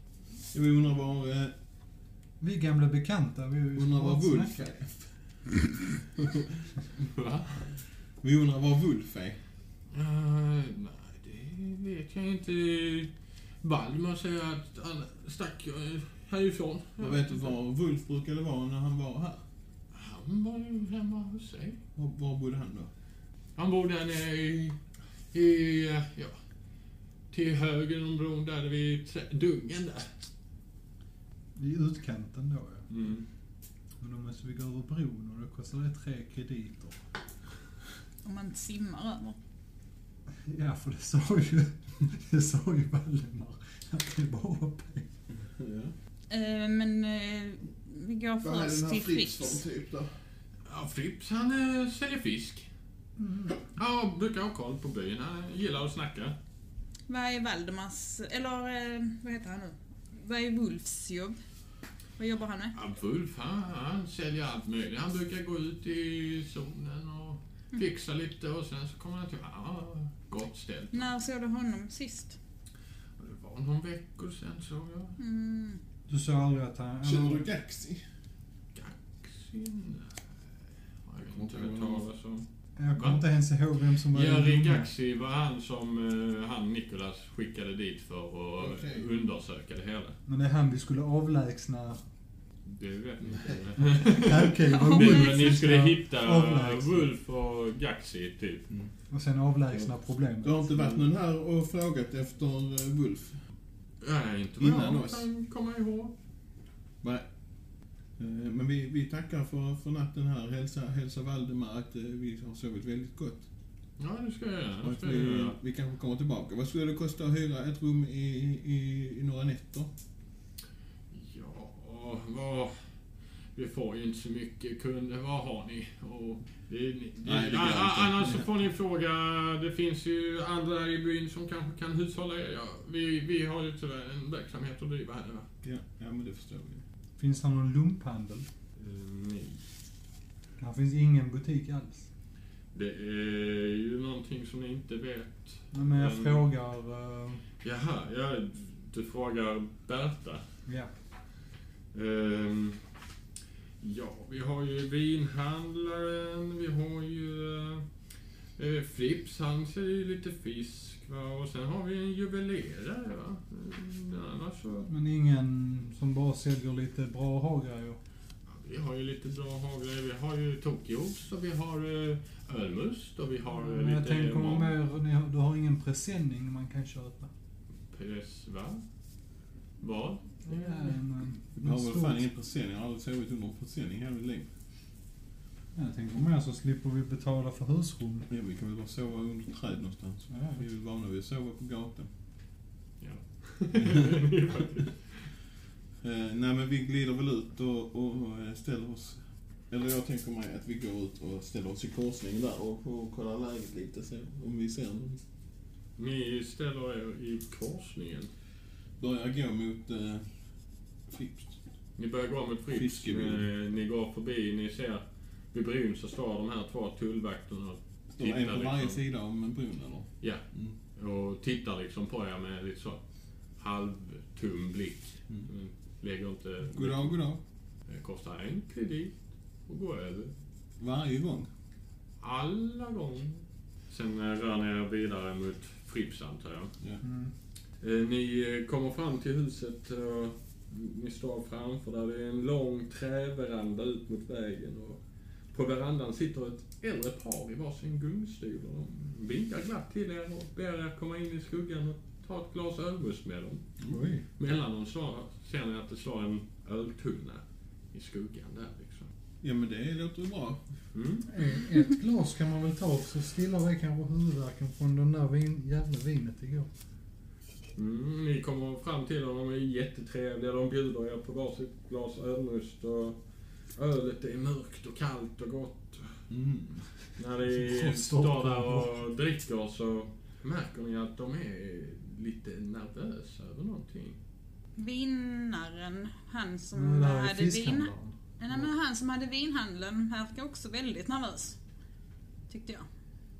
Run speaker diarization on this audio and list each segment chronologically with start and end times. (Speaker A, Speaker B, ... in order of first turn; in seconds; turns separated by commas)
Speaker A: 0.5-1.5, Speaker B: 2.4-4.7, Speaker A: 3.8-5.1, Speaker A: 6.2-6.4, Speaker C: 7.0-7.8, Speaker A: 8.2-9.4, Speaker C: 9.9-13.1, Speaker C: 13.6-17.5, Speaker A: 17.0-19.4, Speaker C: 19.9-21.8, Speaker A: 21.9-22.9, Speaker C: 23.6-24.8, Speaker C: 25.3-26.4, Speaker C: 27.3-30.1, Speaker B: 31.6-32.9, Speaker C: 32.9-33.2, Speaker B: 34.0-37.0, Speaker D: 38.2-39.4, Speaker B: 40.4-45.1, Speaker A: 45.3-45.9, Speaker D: 46.3-49.6, Speaker A: 48.4-50.1, Speaker C: 50.6-52.7, Speaker B: 53.2-53.6, Speaker C: 53.7-56.4, Speaker D: 57.1-61.4, Speaker D: 62.2-62.7, Speaker C: 62.7-71.1, Speaker D: 70.9-72.4, Speaker C: 73.2-75.2, Speaker D: 75.2-75.8, Speaker B: 76.1-77.5, Speaker A: 77.0-78.0, Speaker C: 78.7-80.3, Speaker C: 81.0-83.2, Speaker A: 81.2-82.0, Speaker B: 82.8-84.9, Speaker C: 84.0-90.2, Speaker A: 88.6-89.1, Speaker B: 90.3-92.0, Speaker C: 92.7-98.7, Speaker B: 93.8-97.1, Speaker D: 94.6-95.5, Speaker B: 99.1-101.0, Speaker A: 100.4-103.4, Speaker C: 104.0-106.1, Speaker A: 104.6-105.2, Speaker A: 107.0-107.3, Speaker A: 108.2-113.4, Speaker C: 114.0-115.6, Speaker A: 114.8-119.9, Speaker C: 121.1-122.8, Speaker C: 123.5-135.5, Speaker A: 127.2-128.5, Speaker A: 135.6-136.8, Speaker B: 137.2-138.4, Speaker C: 138.8-139.6, Speaker B: 140.6-142.1, Speaker C: 142.7-146.4, Speaker B: 145.7-147.4, Speaker C: 147.6-150.4, Speaker B: 150.7-150.9, Speaker C: 151.9-152.8, Speaker C: 153.8-157.8, Speaker C: 158.6-164.9, Speaker B: 164.9-168.0, Speaker C: 168.5-174.7, Speaker B: 173.6-177.3, Speaker C: 177.9-178.8, Speaker C: 179.8-180.9, Speaker B: 180.4-182.2, Speaker A: 181.6-184.5, Speaker B: 185.7-188.3, Speaker A: 188.3-192.1, Speaker B: 190.3-190.6, Speaker C: 193.0-195.3, Speaker A: 196.0-205.2, Speaker C: 206.0-208.3, Speaker A: 209.0-210.3, Speaker A: 211.1-211.5, Speaker C: 212.0-219.0, Speaker A: 212.7-213.5, Speaker A: 218.1-220.8, Speaker C: 220.9-223.0, Speaker C: 223.6-227.2, Speaker A: 226.7-227.4, Speaker C: 227.9-229.1, Speaker C: 229.7-230.3, Speaker A: 230.8-231.5, Speaker C: 232.2-236.7, Speaker B: 237.0-237.3, Speaker C: 237.8-245.0, Speaker C: 245.5-253.7, Speaker A: 253.8-254.2, Speaker B: 253.9-254.2, Speaker C: 254.4-259.1, Speaker A: 259.4-260.6, Speaker C: 260.9-261.3, Speaker B: 261.3-266.7, Speaker C: 267.8-273.2, Speaker C: 273.7-276.2, Speaker A: 276.3-276.8, Speaker C: 277.2-284.2, Speaker B: 277.5-279.0, Speaker D: 284.8-291.6, Speaker B: 286.7-288.2, Speaker D: 292.5-292.9